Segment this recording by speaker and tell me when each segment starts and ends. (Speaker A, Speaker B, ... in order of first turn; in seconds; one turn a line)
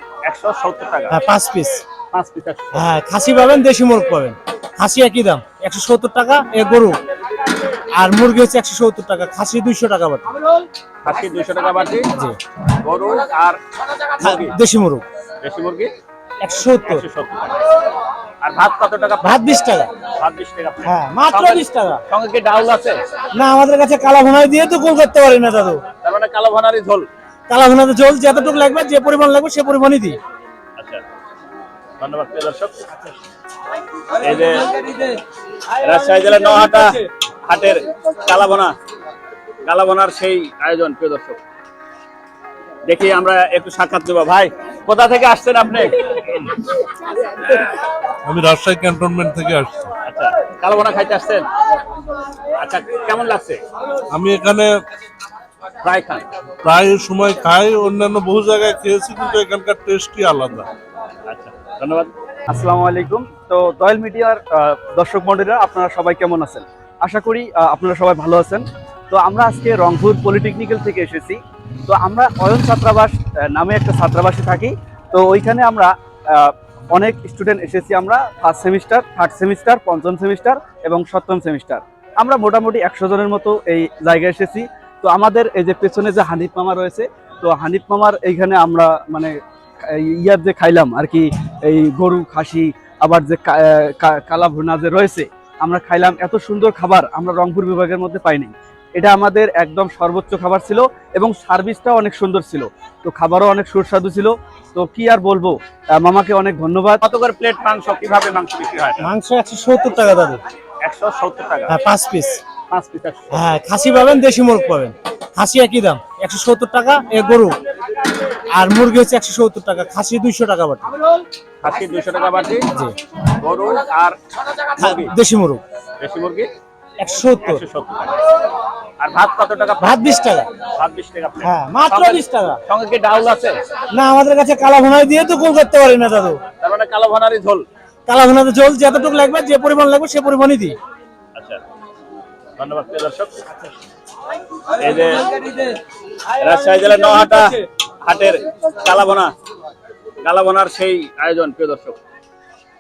Speaker A: 0.2-1.2
Speaker B: 1.1-1.8
Speaker A: 2.1-2.8
Speaker B: 2.7-7.0
Speaker B: 7.9-10.3
Speaker A: 11.0-12.1
Speaker A: 12.7-13.6
Speaker A: 14.2-14.5
Speaker B: 14.2-15.0
Speaker A: 15.4-15.9
Speaker B: 16.4-17.0
Speaker A: 16.8-17.6
Speaker A: 18.4-19.4
Speaker B: 19.2-19.9
Speaker A: 20.0-23.0
Speaker B: 20.8-22.0
Speaker B: 23.3-25.8
Speaker A: 26.0-27.1
Speaker B: 27.5-30.2
Speaker A: 30.8-31.0
Speaker A: 32.0-32.7
Speaker A: 34.1-35.1
Speaker A: 35.7-38.7
Speaker A: 39.6-41.4
Speaker A: 42.9-46.4
Speaker C: 48.2-49.9
Speaker A: 50.0-51.5
Speaker A: 52.5-53.6
Speaker C: 54.1-54.8
Speaker A: 55.8-56.2
Speaker C: 56.6-60.7
Speaker A: 61.3-62.1
Speaker D: 62.5-89.3
Speaker D: 89.9-107.0
Speaker A: 107.0-109.1
Speaker B: 109.0-110.4
Speaker A: 110.8-111.7
Speaker B: 111.7-112.4
Speaker A: 112.7-113.4
Speaker B: 113.3-117.5
Speaker B: 118.5-120.9
Speaker A: 121.6-122.7
Speaker A: 123.3-124.2
Speaker A: 124.7-125.1
Speaker B: 124.8-125.6
Speaker A: 126.0-126.5
Speaker B: 127.0-127.6
Speaker A: 127.4-128.2
Speaker A: 129.0-133.6
Speaker B: 129.8-130.5
Speaker B: 131.4-132.6
Speaker B: 133.9-136.4
Speaker A: 136.6-137.6
Speaker B: 138.1-140.8
Speaker A: 141.3-141.6
Speaker A: 142.6-143.4
Speaker A: 144.8-145.7
Speaker A: 146.4-149.3
Speaker A: 150.2-152.0